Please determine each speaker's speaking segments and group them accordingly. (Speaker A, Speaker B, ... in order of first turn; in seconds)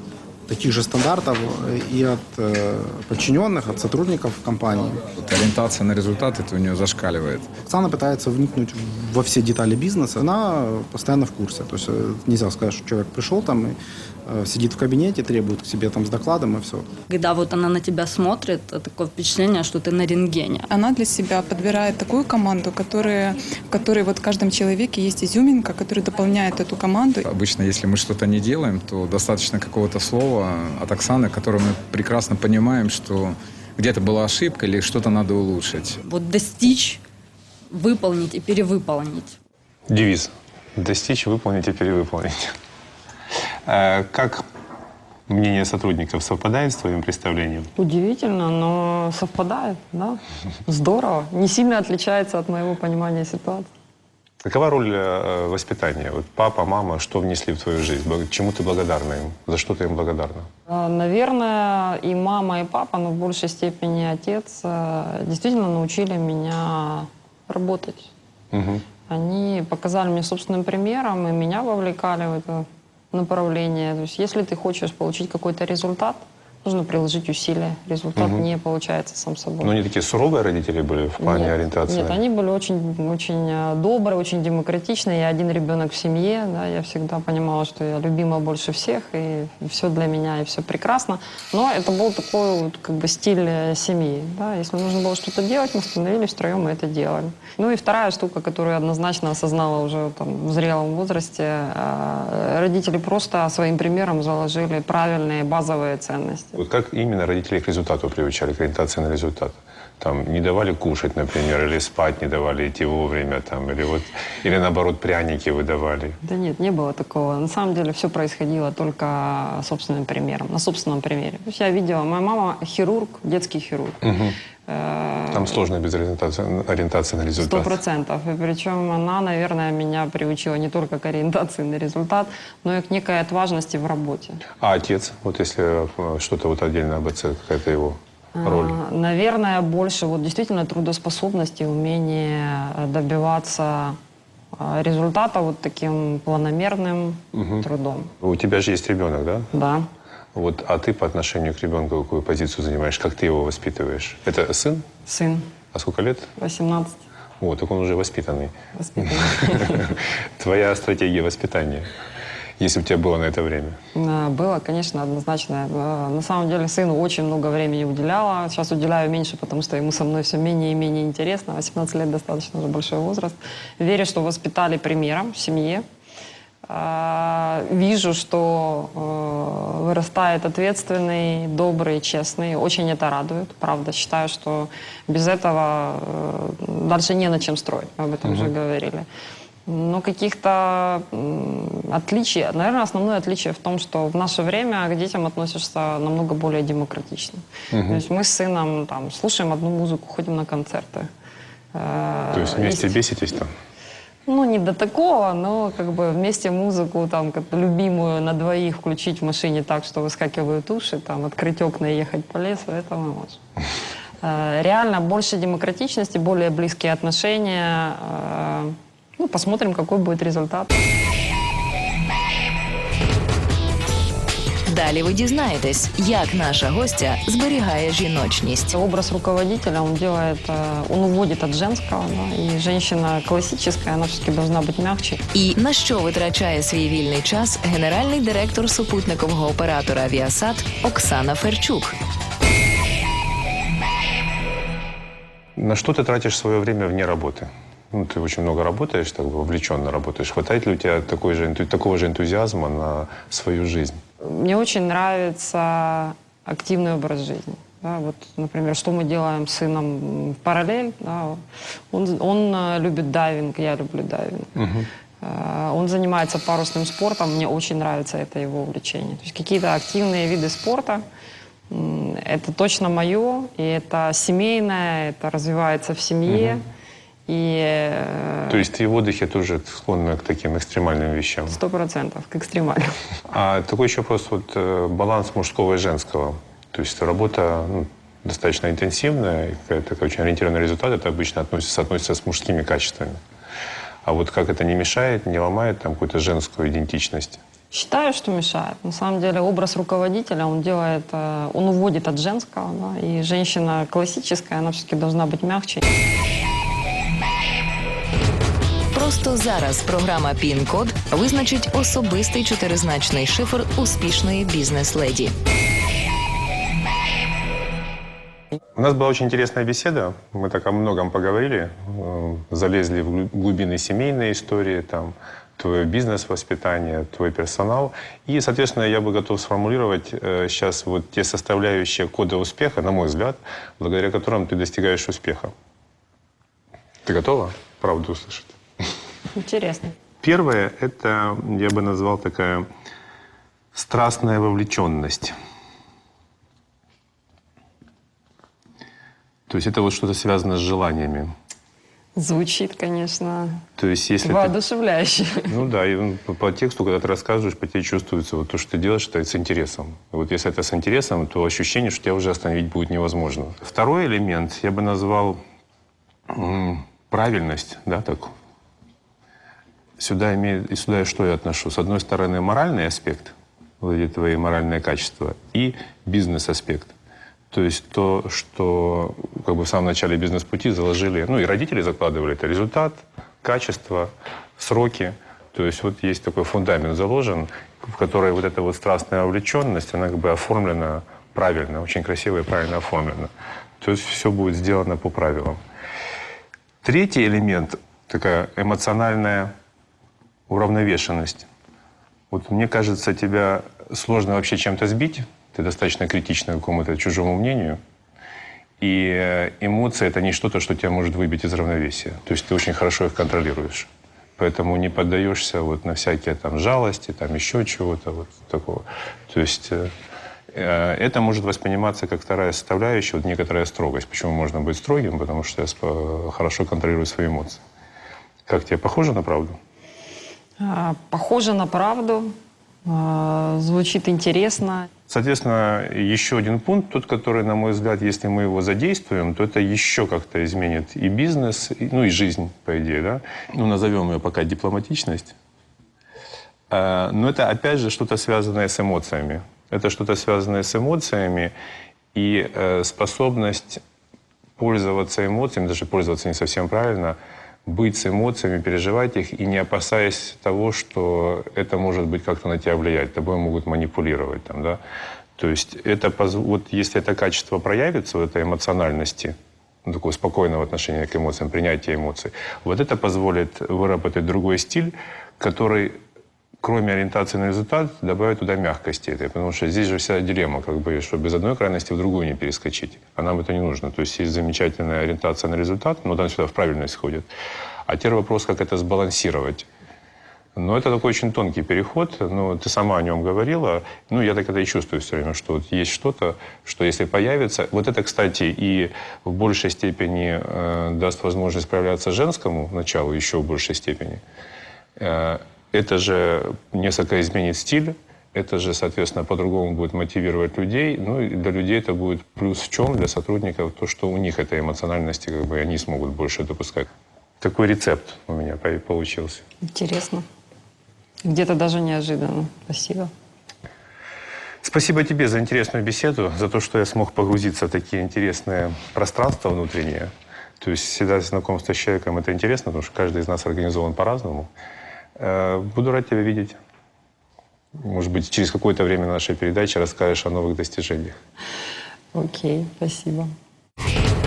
Speaker A: 0.5-5.0, 7.7-16.9
Speaker B: 5.2-7.5, 27.2-36.0
Speaker C: 17.1-20.7, 36.0-37.0, 37.7-39.4
Speaker D: 20.7-27.2
Speaker E: 39.9-42.5, 43.6-44.4, 45.3-47.7, 54.4-60.5, 68.5-68.8, 78.2-78.4, 79.6-82.2, 106.5-116.2, 124.0-124.3, 125.3-127.8, 134.6-138.8, 147.3-147.6, 148.2-149.5, 150.3-154.8, 155.7-156.3, 157.4-161.9, 162.6-163.8, 197.7-198.0, 202.3-203.5, 245.6-254.0, 264.6-264.9, 276.3-276.6, 278.5-281.6, 283.3-293.2, 294.0-297.4, 318.8-335.5, 337.0-338.5, 340.2-342.6, 343.7-345.3, 349.5-351.3, 353.8-354.5, 355.5-365.4, 366.3-368.3, 370.0-376.9, 377.5-393.3, 393.8-395.6, 396.8-399.5, 400.5-401.4, 402.3-407.8, 408.8-419.9, 420.5-427.6, 428.5-429.6, 435.1-445.3, 446.7-451.5, 452.1-453.8, 454.6-464.8, 465.4-476.0, 476.6-487.3, 487.9-489.6, 490.6-504.2, 505.0-516.9, 517.4-519.4, 524.6-534.5, 535.2-536.6, 537.8-541.1
Speaker F: 47.8-53.7, 60.7-68.1, 69.1-79.7, 81.2-106.6, 116.2-124.1, 124.7-125.5, 127.4-134.4, 138.3-144.0, 144.5-148.1, 149.5-149.9, 155.1-155.5, 156.4-157.0, 158.8-159.9, 163.9-175.8, 176.7-189.1, 189.7-201.1, 201.7-202.9, 204.3-213.4, 214.2-220.7, 228.7-235.2, 254.2-264.5, 265.2-271.0, 271.7-276.6, 277.3-278.6, 281.5-282.9, 297.7-305.8, 339.3-339.9, 352.1-353.6, 354.2-355.5, 430.6-432.3, 432.9-434.9, 519.6-520.2, 521.2-523.1, 542.1-543.3
Speaker G: 224.7-228.7, 235.3-241.9, 308.9-315.3